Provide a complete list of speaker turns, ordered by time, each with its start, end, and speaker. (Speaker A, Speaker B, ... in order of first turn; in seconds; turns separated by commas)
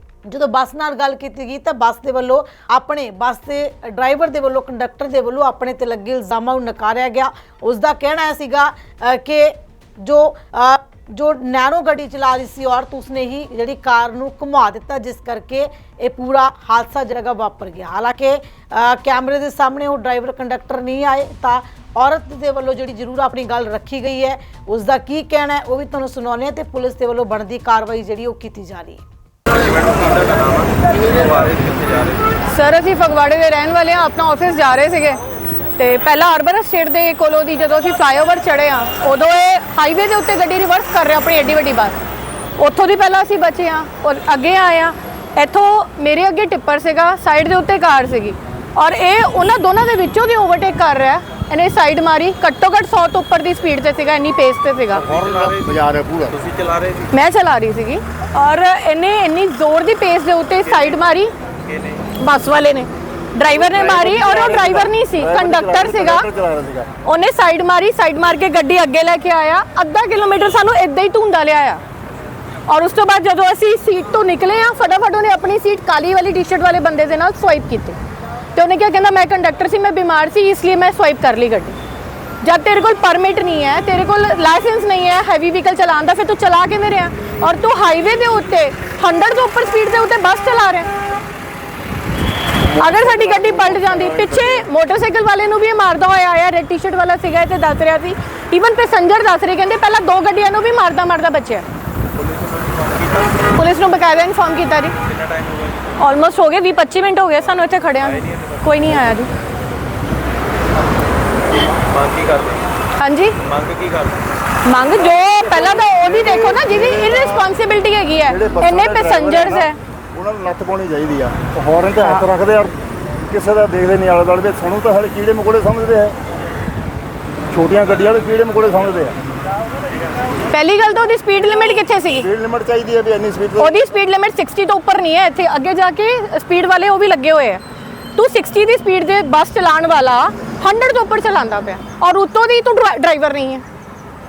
Speaker A: 0.2-29.0, Speaker B: 29.5-32.2, Speaker C: 32.4-35.2, Speaker C: 35.8-42.0, Speaker C: 42.6-55.1, Speaker B: 54.9-57.1, Speaker D: 55.1-56.3, Speaker C: 57.1-61.3, Speaker B: 60.7-61.0, Speaker B: 61.6-62.1, Speaker C: 62.1-66.3, Speaker D: 63.5-66.9, Speaker C: 67.0-71.8, Speaker C: 72.7-78.0, Speaker C: 78.5-81.8, Speaker C: 82.4-90.9, Speaker C: 92.7-101.6, Speaker D: 92.8-94.7, Speaker B: 102.2-103.5, Speaker C: 103.5-105.0, Speaker B: 105.0-105.9, Speaker C: 106.0-109.3, Speaker B: 108.0-108.6, Speaker B: 111.9-112.7, Speaker C: 112.9-113.4, Speaker B: 113.4-114.2, Speaker C: 114.6-119.8, Speaker D: 115.8-117.5, Speaker D: 118.3-122.7, Speaker D: 123.2-126.2, Speaker D: 127.5-129.2, Speaker C: 130.5-132.3, Speaker D: 132.2-133.8, Speaker C: 133.6-137.6, Speaker C: 138.1-143.6